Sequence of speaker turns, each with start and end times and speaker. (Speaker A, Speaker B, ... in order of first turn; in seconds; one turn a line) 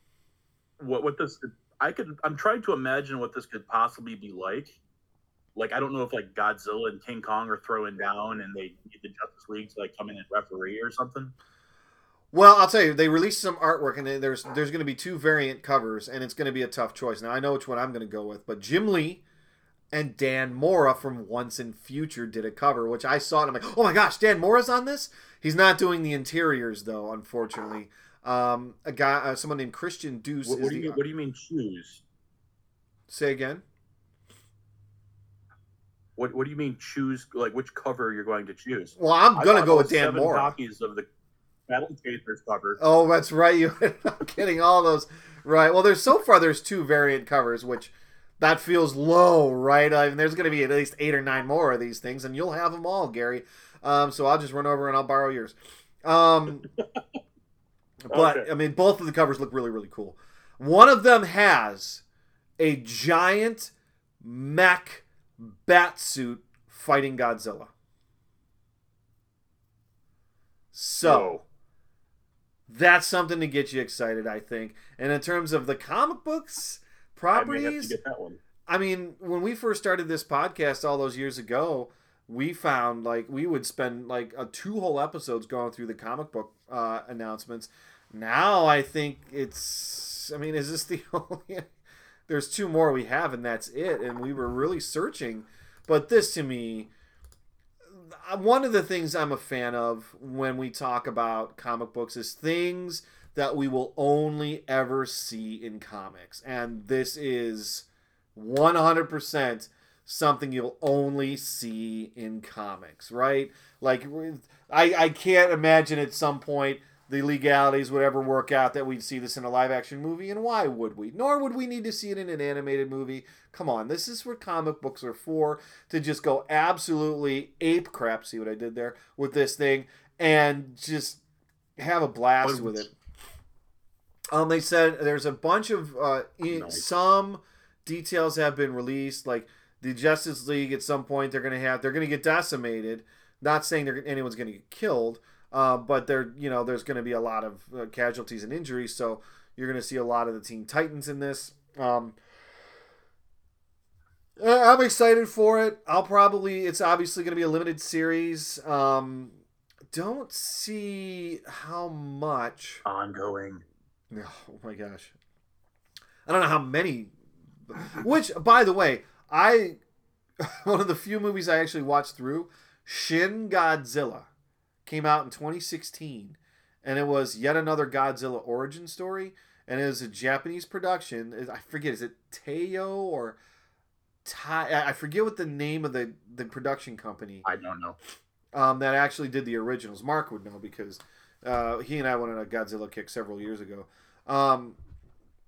Speaker A: 0.8-4.8
Speaker A: 5.5-11.3
Speaker B: 12.3-19.2
Speaker B: 19.9-31.0
Speaker A: 30.4-32.0
Speaker B: 33.1-33.6
Speaker A: 36.2-41.0
Speaker B: 39.0-40.5
Speaker A: 41.7-42.8
Speaker B: 42.8-56.7
Speaker B: 58.0-62.0
Speaker A: 58.1-58.5
Speaker B: 62.6-67.7
Speaker B: 70.7-71.3
Speaker A: 71.0-71.4
Speaker B: 72.7-78.0
Speaker A: 77.3-78.4
Speaker B: 78.7-91.7
Speaker B: 92.3-96.9
Speaker B: 97.9-131.2
Speaker B: 131.8-132.9
Speaker A: 132.4-132.9
Speaker B: 134.3-152.2
Speaker A: 136.5-136.9
Speaker B: 154.4-159.4
Speaker B: 159.9-162.8
Speaker A: 162.8-163.6
Speaker B: 164.1-165.1
Speaker B: 166.2-167.1
Speaker B: 167.7-169.8
Speaker B: 170.4-174.3
Speaker B: 174.8-183.4
Speaker B: 184.2-187.4
Speaker A: 187.4-188.0
Speaker B: 188.5-194.8